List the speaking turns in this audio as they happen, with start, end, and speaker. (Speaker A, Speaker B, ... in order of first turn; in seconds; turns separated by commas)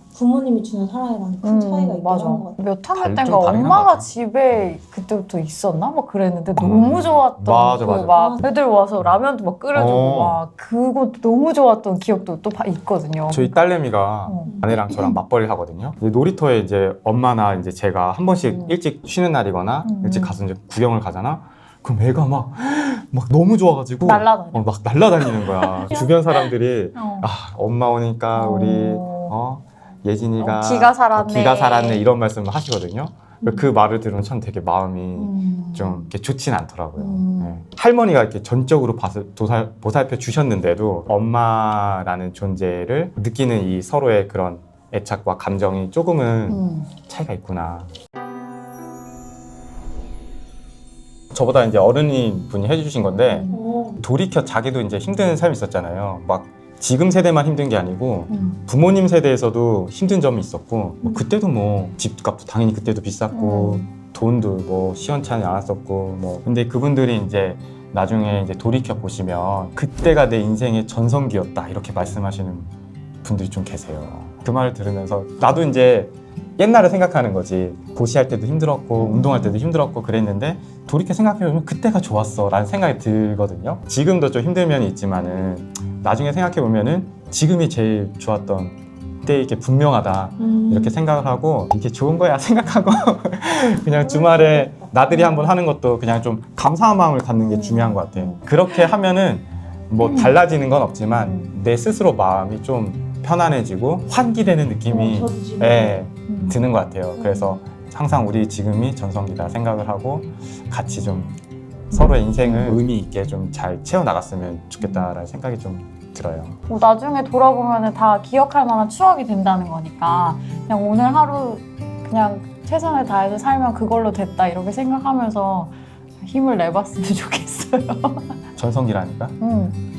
Speaker A: 0.1-2.6, Speaker B: 1.4-13.5, Speaker C: 3.0-4.6, Speaker C: 6.6-8.5, Speaker A: 8.1-8.5, Speaker C: 9.7-10.4, Speaker C: 13.3-47.9, Speaker B: 14.2-15.2, Speaker A: 14.4-14.7, Speaker B: 18.4-18.8, Speaker B: 19.8-20.4, Speaker B: 24.0-24.7, Speaker B: 25.2-27.3, Speaker B: 28.3-29.3, Speaker B: 30.4-32.1, Speaker A: 33.4-33.7, Speaker B: 35.1-36.1, Speaker B: 37.0-37.6, Speaker B: 46.5-46.9, Speaker C: 51.3-72.7, Speaker B: 53.3-53.6, Speaker A: 53.5-54.0, Speaker B: 58.3-58.6, Speaker A: 61.0-61.3, Speaker B: 63.3-63.9, Speaker C: 73.2-111.4, Speaker B: 79.0-79.6, Speaker A: 90.4-91.0, Speaker A: 94.0-95.0, Speaker B: 95.1-95.5, Speaker B: 97.4-98.9, Speaker B: 100.0-100.4, Speaker B: 101.0-101.5, Speaker A: 104.9-106.0, Speaker B: 106.3-106.6, Speaker A: 107.2-107.5, Speaker C: 111.9-116.6, Speaker B: 111.9-112.8, Speaker B: 114.8-115.2, Speaker B: 116.7-128.4, Speaker C: 128.6-129.4, Speaker B: 129.4-129.8